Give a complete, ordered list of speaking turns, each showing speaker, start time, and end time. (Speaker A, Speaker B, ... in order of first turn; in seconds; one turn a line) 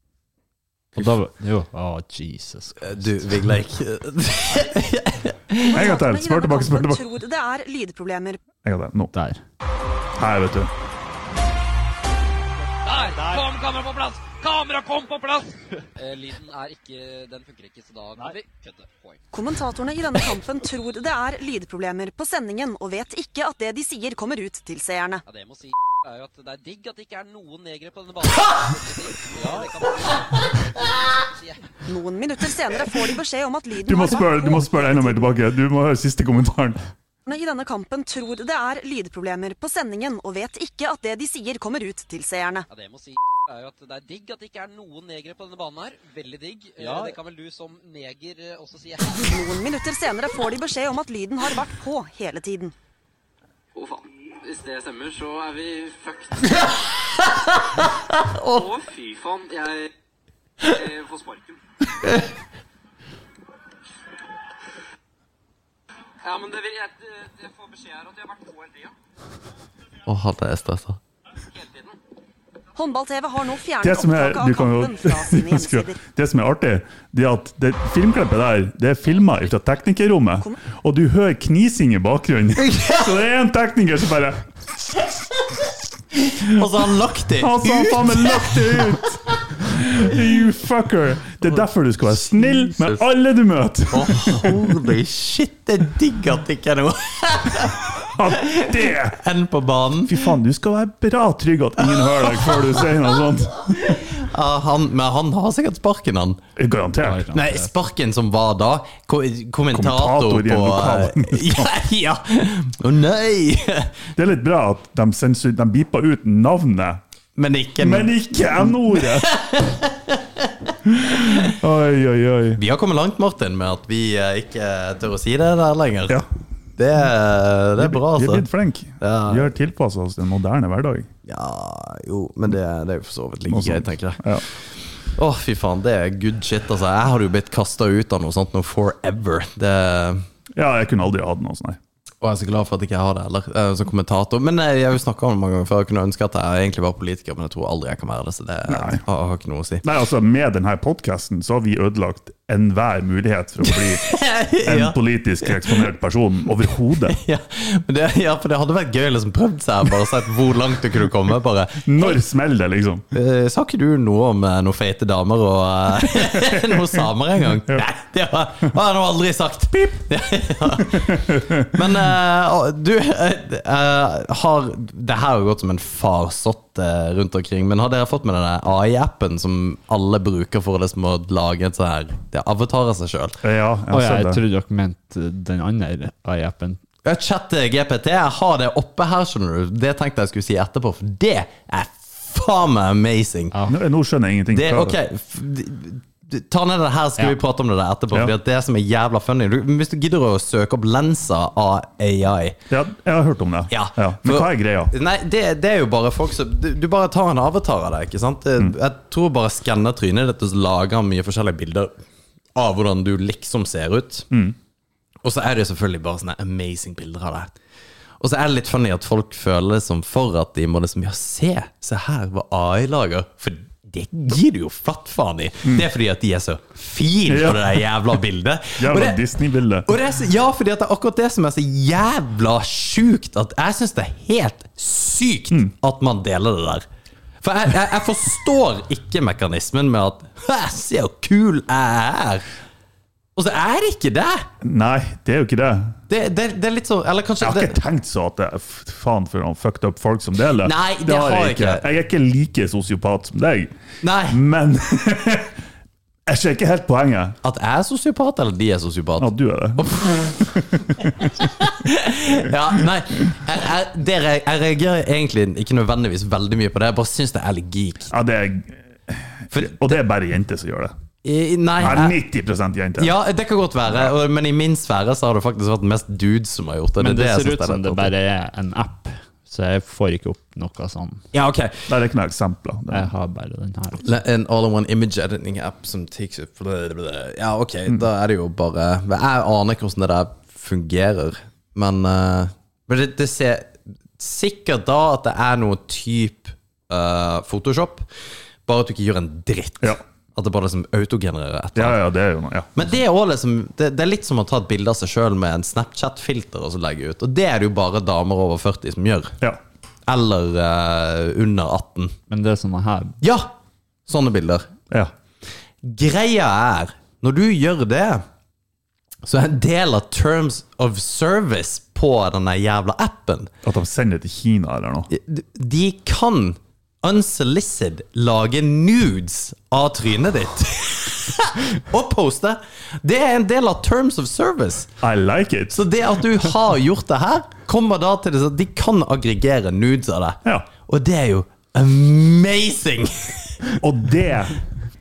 Speaker A: 0.9-3.5
Speaker B: 2.8-5.7
Speaker C: 5.6-8.4
Speaker D: 5.7-7.1
Speaker D: 8.6-9.1
Speaker A: 9.1-9.4
Speaker D: 10.2-10.7
Speaker E: 12.8-19.2
Speaker C: 19.3-25.2
Speaker E: 25.3-31.6
Speaker C: 31.8-35.3
Speaker D: 33.8-36.8
Speaker C: 37.2-42.7
Speaker E: 42.7-49.4
Speaker C: 49.2-52.7
Speaker E: 53.8-56.7
Speaker E: 58.5-59.9
Speaker E: 60.6-61.5
Speaker E: 66.2-68.9
Speaker B: 70.0-71.0
Speaker C: 72.7-76.0
Speaker D: 73.8-84.4
Speaker B: 82.7-83.0
Speaker B: 86.2-89.0
Speaker D: 87.4-94.7
Speaker B: 92.5-93.0
Speaker B: 93.9-100.2
Speaker D: 98.0-99.2
Speaker D: 100.0-104.0
Speaker B: 102.0-102.8
Speaker B: 103.8-106.4
Speaker D: 106.5-107.3
Speaker A: 107.0-107.7
Speaker B: 107.3-114.0
Speaker D: 109.7-111.7
Speaker D: 114.2-117.0
Speaker B: 117.3-121.5
Speaker D: 117.8-119.3
Speaker D: 120.8-122.6
Speaker B: 122.6-126.2
Speaker B: 126.8-128.5
Speaker D: 127.8-131.1
Speaker B: 129.0-129.5
Speaker B: 131.2-134.6
Speaker D: 133.5-134.4
Speaker B: 135.1-140.2
Speaker D: 140.6-141.8
Speaker B: 142.2-149.8
Speaker D: 148.7-149.0
Speaker D: 149.8-157.2
Speaker B: 153.7-155.0
Speaker B: 157.1-162.2
Speaker D: 161.8-163.0
Speaker B: 163.1-183.4
Speaker D: 166.3-167.0
Speaker D: 170.8-171.8
Speaker D: 183.4-184.4
Speaker A: 183.9-186.8
Speaker B: 187.0-193.5
Speaker D: 193.7-195.0
Speaker B: 194.5-202.6
Speaker D: 202.7-204.9
Speaker B: 203.7-211.9
Speaker B: 212.5-214.3
Speaker D: 214.3-214.6
Speaker B: 215.2-217.5
Speaker B: 218.2-229.2
Speaker D: 227.3-227.8
Speaker D: 228.8-229.9
Speaker B: 229.8-236.8
Speaker B: 237.4-242.4
Speaker B: 243.3-244.5
Speaker D: 244.6-246.0
Speaker B: 246.1-247.8
Speaker D: 247.4-253.7
Speaker B: 250.6-251.8
Speaker B: 254.0-254.4
Speaker D: 254.3-255.5
Speaker D: 256.2-257.4
Speaker B: 257.4-260.4
Speaker D: 259.2-261.3
Speaker B: 261.1-268.1
Speaker D: 268.1-270.9
Speaker B: 269.5-270.0
Speaker B: 271.2-272.2
Speaker D: 271.8-273.2
Speaker B: 273.0-278.1
Speaker D: 273.9-274.1
Speaker A: 277.0-281.2
Speaker B: 281.3-281.9
Speaker D: 281.9-283.1
Speaker A: 282.9-284.1
Speaker B: 284.0-298.1
Speaker B: 298.6-302.0
Speaker D: 301.7-302.9
Speaker B: 302.7-309.4
Speaker B: 310.1-312.1
Speaker A: 312.3-313.1
Speaker B: 313.2-313.5
Speaker B: 314.1-314.7
Speaker B: 315.8-318.2
Speaker B: 319.2-323.5
Speaker D: 323.6-325.1
Speaker B: 325.1-334.9
Speaker D: 335.0-335.8
Speaker B: 335.7-343.6
Speaker D: 343.8-344.6